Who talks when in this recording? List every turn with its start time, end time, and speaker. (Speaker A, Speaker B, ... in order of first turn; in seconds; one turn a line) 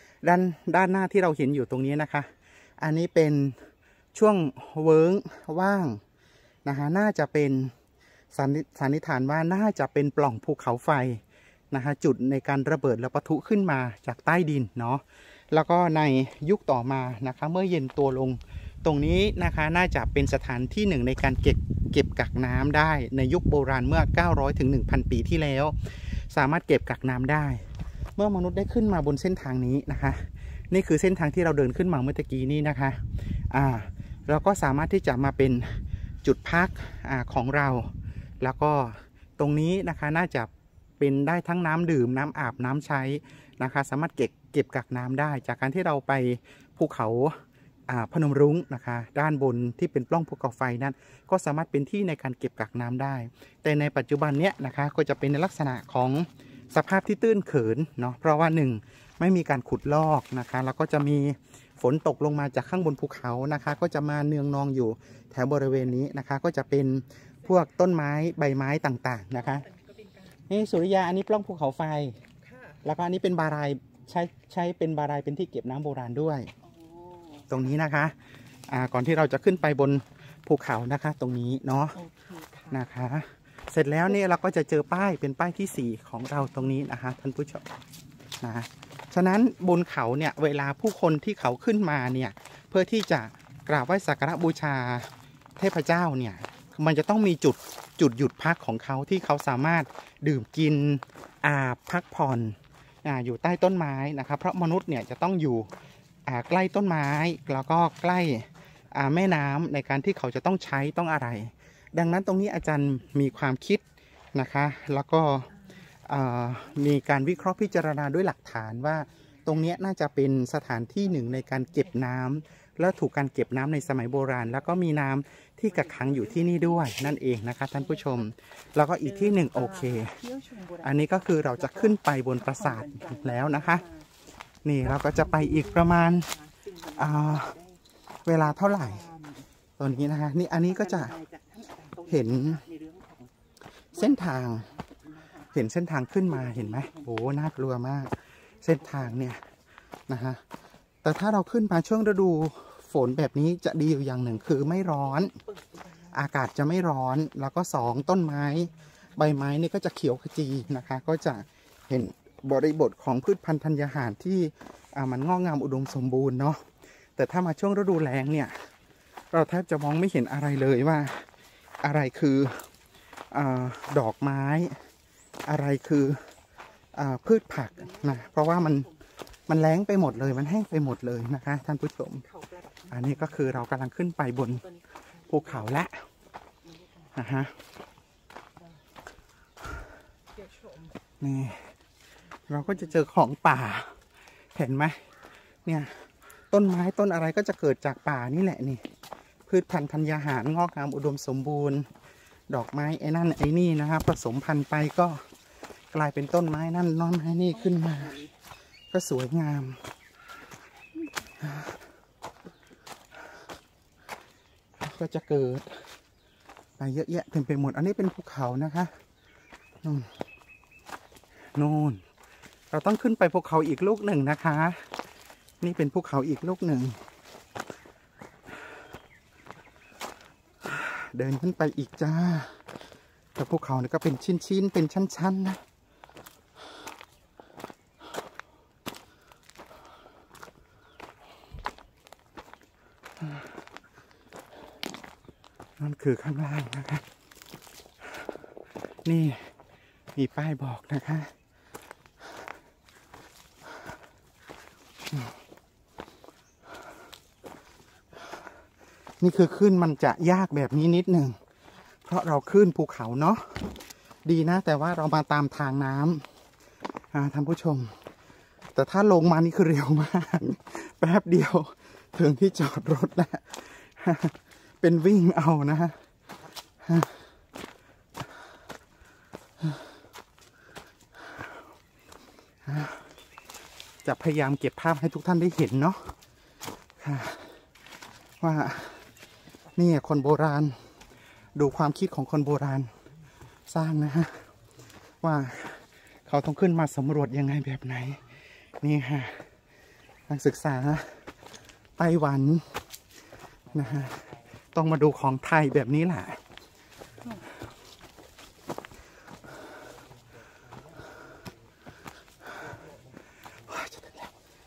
Speaker A: 0.2-3.6
Speaker A: 4.1-6.0
Speaker A: 6.7-7.7
Speaker A: 8.3-27.6
Speaker A: 28.1-69.7
Speaker A: 70.5-72.2
Speaker A: 72.8-76.5
Speaker B: 76.6-77.5
Speaker A: 77.5-78.2
Speaker A: 78.7-82.0
Speaker B: 81.9-82.8
Speaker A: 82.7-87.6
Speaker A: 88.4-105.7
Speaker A: 106.2-113.8
Speaker A: 114.3-115.5
Speaker A: 116.0-130.2
Speaker B: 125.7-127.0
Speaker B: 127.9-128.2
Speaker B: 129.0-134.1
Speaker A: 130.8-133.8
Speaker A: 134.6-136.3
Speaker B: 134.8-139.4
Speaker A: 136.9-137.5
Speaker A: 138.2-139.1
Speaker A: 139.8-141.1
Speaker B: 140.7-143.3
Speaker A: 142.1-142.6
Speaker B: 143.9-145.5
Speaker A: 143.9-144.7
Speaker A: 145.5-149.4
Speaker B: 146.2-147.1
Speaker A: 150.1-150.4
Speaker A: 151.0-155.4
Speaker B: 154.9-156.1
Speaker A: 156.1-166.7
Speaker A: 167.2-168.7
Speaker A: 169.3-171.3
Speaker A: 171.8-172.7
Speaker A: 173.3-174.8
Speaker A: 175.4-176.2
Speaker A: 176.9-178.8
Speaker B: 177.8-179.0
Speaker A: 179.5-182.2
Speaker B: 182.2-183.6
Speaker A: 182.9-184.6
Speaker B: 184.5-185.6
Speaker A: 185.3-186.0
Speaker B: 186.6-187.1
Speaker A: 187.1-187.5
Speaker B: 190.5-190.8
Speaker A: 191.2-191.7
Speaker A: 192.5-193.9
Speaker A: 194.5-195.0
Speaker A: 195.6-198.8
Speaker A: 199.5-201.9
Speaker A: 202.5-205.3
Speaker A: 205.9-208.2
Speaker B: 207.5-208.3
Speaker A: 208.9-209.8
Speaker A: 214.8-215.8
Speaker A: 216.8-218.9
Speaker A: 219.8-220.1
Speaker A: 221.5-222.0
Speaker A: 222.7-224.9
Speaker A: 225.6-227.0
Speaker A: 230.6-232.6
Speaker A: 233.3-235.6
Speaker A: 245.8-247.0
Speaker A: 249.1-249.5
Speaker A: 250.1-251.3
Speaker A: 259.2-261.4
Speaker A: 262.0-263.7
Speaker A: 264.2-266.3
Speaker A: 267.1-267.9
Speaker A: 268.7-276.0
Speaker A: 276.8-277.2
Speaker A: 282.6-283.0
Speaker A: 284.0-286.1
Speaker A: 287.0-287.6
Speaker A: 288.4-289.0
Speaker A: 289.7-290.8
Speaker A: 291.6-292.9
Speaker A: 293.7-294.5
Speaker A: 295.2-298.2
Speaker A: 298.8-299.4
Speaker A: 300.3-301.2
Speaker A: 302.0-302.8
Speaker A: 303.7-306.4
Speaker A: 313.6-314.3